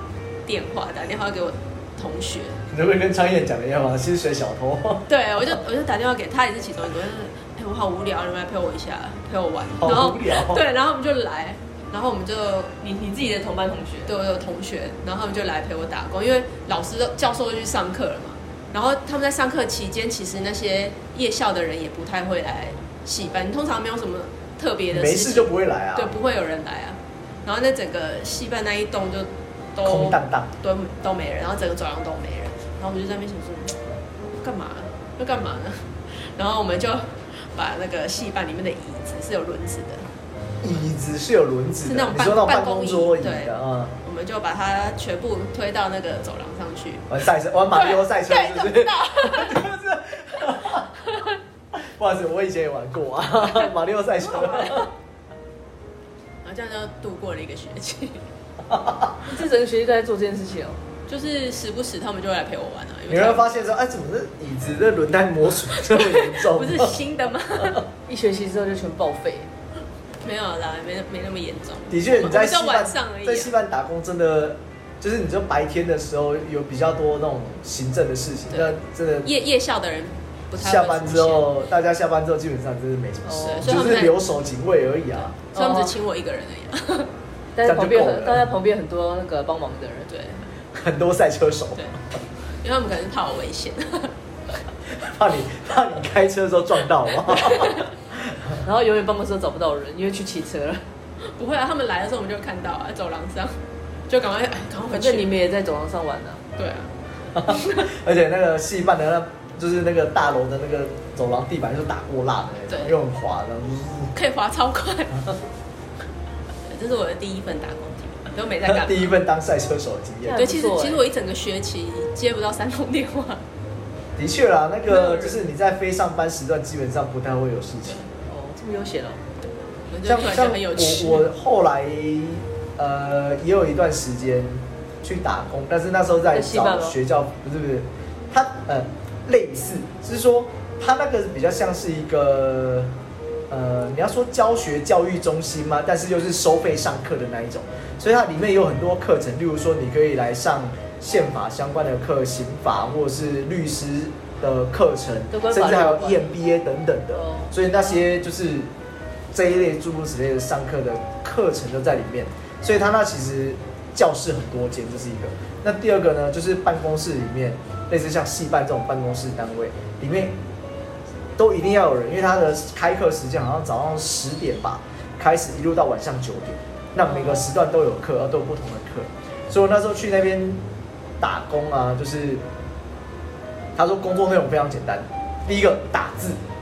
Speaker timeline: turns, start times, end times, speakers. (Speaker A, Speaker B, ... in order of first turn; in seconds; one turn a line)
Speaker A: 0.5-2.6
Speaker B: 2.7-5.5
Speaker A: 5.1-12.7
Speaker B: 9.8-10.6
Speaker C: 12.8-14.2
Speaker A: 14.1-40.1
Speaker B: 24.9-26.1
Speaker B: 29.8-30.5
Speaker B: 40.6-43.9
Speaker A: 41.9-47.1
Speaker B: 47.1-50.9
Speaker A: 47.7-49.6
Speaker B: 51.7-54.9
Speaker A: 56.4-58.2
Speaker B: 58.7-59.2
Speaker C: 59.2-60.8
Speaker A: 61.1-63.6
Speaker B: 63.1-67.0
Speaker A: 65.6-67.8
Speaker C: 68.1-69.5
Speaker A: 70.2-73.5
Speaker B: 71.9-79.3
Speaker A: 78.5-81.5
Speaker B: 80.6-85.4
Speaker C: 83.2-83.8
Speaker A: 83.4-84.2
Speaker A: 85.2-87.1
Speaker C: 85.5-86.0
Speaker C: 87.6-90.1
Speaker B: 87.6-88.5
Speaker A: 90.1-90.5
Speaker B: 90.7-91.9
Speaker A: 92.6-94.1
Speaker B: 95.0-98.6
Speaker A: 97.3-97.9
Speaker C: 98.6-100.8
Speaker A: 101.2-105.3
Speaker C: 104.9-106.4
Speaker A: 106.6-106.9
Speaker B: 107.3-114.1
Speaker A: 107.5-107.9
Speaker A: 112.7-113.0
Speaker A: 114.1-115.3
Speaker A: 116.7-119.1
Speaker B: 118.6-120.4
Speaker C: 120.2-121.0
Speaker A: 120.3-123.4
Speaker B: 124.2-128.0
Speaker A: 124.9-125.4
Speaker C: 128.3-129.2
Speaker A: 129.4-131.3
Speaker B: 130.1-142.9
Speaker C: 136.3-137.0
Speaker B: 143.5-158.7
Speaker C: 155.3-156.3
Speaker C: 157.1-157.6
Speaker B: 159.3-170.4
Speaker B: 171.4-180.6
Speaker B: 181.2-182.4
Speaker B: 183.8-186.4